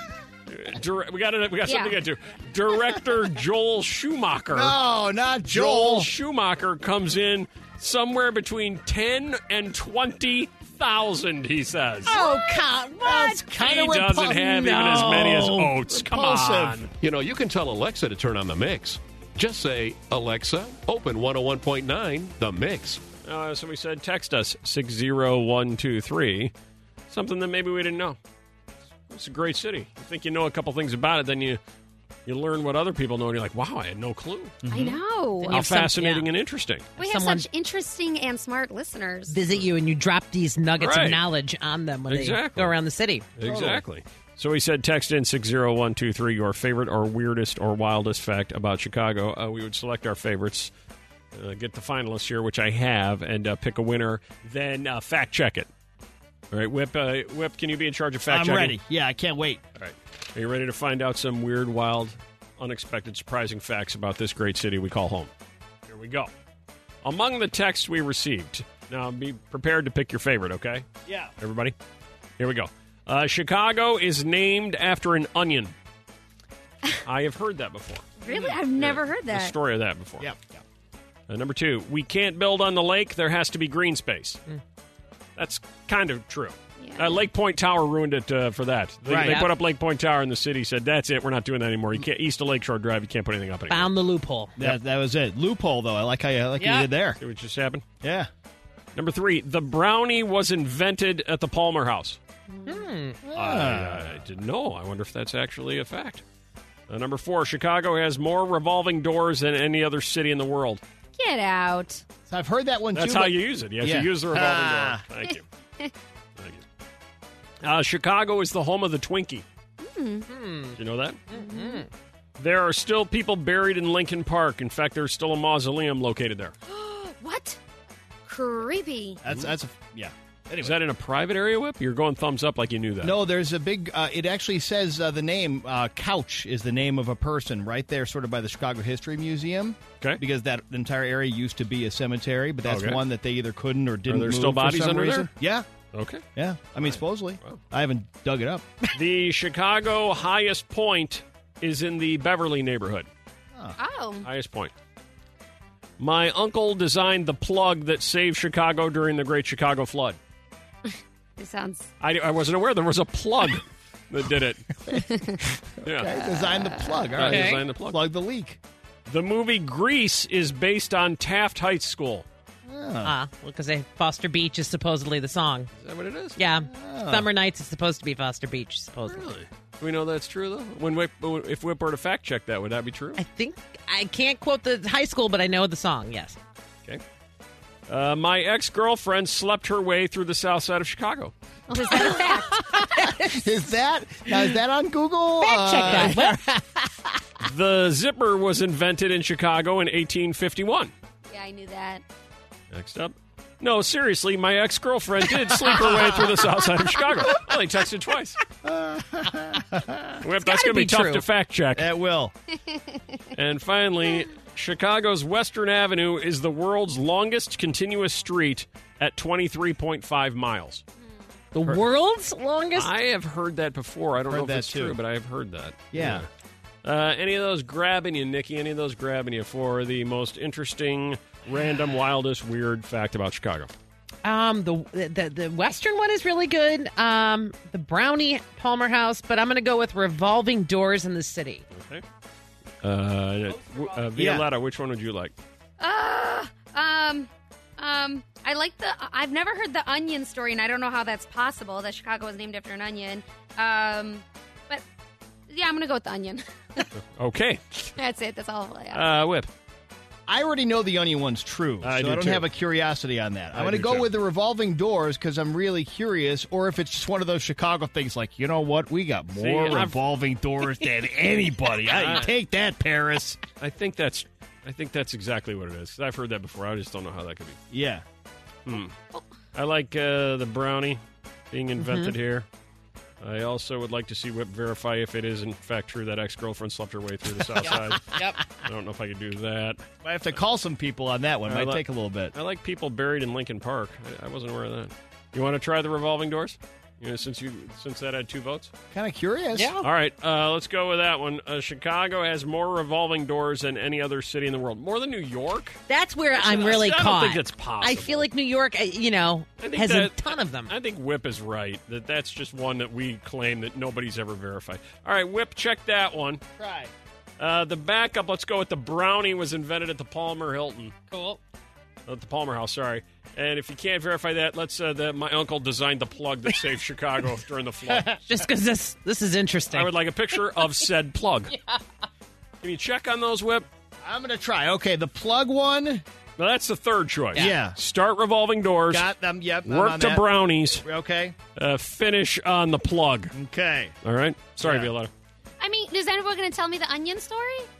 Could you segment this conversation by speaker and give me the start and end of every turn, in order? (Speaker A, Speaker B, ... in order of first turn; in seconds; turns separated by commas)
Speaker A: 0.5-4.8, Speaker B: 1.6-1.9, Speaker C: 4.5-6.1, Speaker A: 5.5-12.2, Speaker D: 12.1-13.5, Speaker C: 12.1-14.8, Speaker B: 12.1-12.6, Speaker A: 13.6-16.9, Speaker D: 14.5-15.8, Speaker C: 15.9-16.9, Speaker E: 17.0-23.0, Speaker A: 23.2-26.5, Speaker A: 27.1-28.2, Speaker A: 29.1-31.6, Speaker A: 32.2-34.6, Speaker C: 34.6-35.0, Speaker B: 34.7-35.6, Speaker D: 35.4-36.3, Speaker A: 35.5-36.9, Speaker D: 37.0-37.5, Speaker B: 37.0-39.4, Speaker D: 39.3-43.3, Speaker A: 40.8-41.2, Speaker A: 42.1-42.7, Speaker A: 43.4-50.7, Speaker C: 43.4-43.8, Speaker A: 51.3-55.7, Speaker A: 56.5-58.8, Speaker C: 58.3-59.6, Speaker A: 59.8-65.3, Speaker A: 65.9-66.3, Speaker A: 67.0-70.9, Speaker C: 71.0-71.3, Speaker A: 71.4-71.7, Speaker A: 72.4-75.7, Speaker A: 77.0-78.1, Speaker B: 78.2-79.5, Speaker A: 78.8-80.3, Speaker C: 80.2-80.6, Speaker A: 81.3-84.4, Speaker A: 85.4-93.9, Speaker B: 86.8-87.2, Speaker C: 89.1-89.4, Speaker D: 89.1-89.5, Speaker D: 93.7-94.6, Speaker C: 94.6-97.2, Speaker D: 96.6-96.9, Speaker A: 97.2-97.8, Speaker C: 98.0-98.3, Speaker A: 98.9-102.2, Speaker B: 102.5-102.9, Speaker D: 102.7-103.2, Speaker C: 103.2-104.2, Speaker A: 103.3-106.2, Speaker A: 106.9-110.8, Speaker B: 111.2-112.0, Speaker C: 112.3-115.0, Speaker A: 112.9-115.4, Speaker B: 115.3-115.9, Speaker A: 117.6-119.4, Speaker B: 119.8-120.3, Speaker D: 120.3-120.8, Speaker A: 120.8-121.2, Speaker D: 121.3-121.9, Speaker B: 121.3-121.8, Speaker A: 122.4-126.5, Speaker B: 126.7-127.6, Speaker B: 128.2-129.2, Speaker C: 129.2-130.8, Speaker A: 130.6-133.2, Speaker C: 133.0-145.7, Speaker A: 142.6-143.0, Speaker A: 144.1-145.3, Speaker A: 145.9-146.2, Speaker C: 146.3-148.7, Speaker A: 146.7-147.6, Speaker A: 148.9-153.1, Speaker B: 153.8-154.3, Speaker A: 154.2-154.7, Speaker A: 156.0-160.2, Speaker B: 161.4-161.9, Speaker A: 162.0-164.7, Speaker B: 164.9-165.4, Speaker A: 165.8-166.2, Speaker C: 165.8-168.6, Speaker B: 166.2-167.1, Speaker A: 167.2-168.0, Speaker D: 167.2-167.7, Speaker A: 169.1-172.2, Speaker C: 172.7-173.1, Speaker D: 173.0-175.7, Speaker A: 175.8-176.4, Speaker D: 176.4-179.3, Speaker C: 176.7-177.3, Speaker A: 179.0-183.2, Speaker D: 183.2-186.4, Speaker A: 187.9-191.3, Speaker B: 191.7-193.1, Speaker D: 191.9-193.1, Speaker C: 193.1-196.6, Speaker D: 195.4-196.5, Speaker A: 197.4-200.9, Speaker B: 201.3-202.0, Speaker A: 202.7-208.4, Speaker C: 208.6-210.2, Speaker A: 210.2-211.9, Speaker D: 210.3-211.2, Speaker C: 211.7-212.3, Speaker B: 212.7-213.2, Speaker A: 213.3-220.8, Speaker D: 221.5-222.9, Speaker A: 222.7-226.3, Speaker C: 224.3-225.0, Speaker C: 225.9-226.3, Speaker A: 226.8-233.7, Speaker D: 234.2-241.6, Speaker A: 241.7-242.0, Speaker A: 242.8-245.3, Speaker C: 244.1-244.5, Speaker B: 245.8-254.8, Speaker B: 255.5-256.9, Speaker A: 257.0-257.9, Speaker B: 257.9-259.1, Speaker A: 258.9-259.5, Speaker C: 260.3-273.4, Speaker A: 261.8-262.4, Speaker A: 263.5-264.1, Speaker A: 269.4-270.0, Speaker A: 271.9-272.3, Speaker A: 273.6-277.6, Speaker C: 277.7-278.0, Speaker A: 278.6-278.9, Speaker A: 279.5-281.0, Speaker A: 281.5-282.5, Speaker D: 281.8-282.1, Speaker A: 283.2-289.8, Speaker D: 287.6-288.4, Speaker C: 290.0-292.3, Speaker A: 291.5-298.7, Speaker C: 298.9-299.7, Speaker D: 299.5-299.9, Speaker A: 299.8-305.8, Speaker D: 305.9-310.7, Speaker A: 306.3-308.3, Speaker A: 309.6-316.4, Speaker C: 316.6-316.9, Speaker A: 317.4-320.9, Speaker D: 321.1-321.4, Speaker A: 322.1-328.1, Speaker C: 327.9-328.2, Speaker D: 328.3-330.9, Speaker A: 329.7-331.5, Speaker D: 331.5-331.8, Speaker A: 332.6-333.6, Speaker C: 334.0-336.0, Speaker A: 336.4-339.1, Speaker C: 337.3-337.8, Speaker C: 338.9-341.4, Speaker A: 339.6-340.8, Speaker A: 341.6-343.3, Speaker C: 343.3-343.9, Speaker A: 344.0-345.1, Speaker C: 344.6-344.9, Speaker B: 345.6-347.7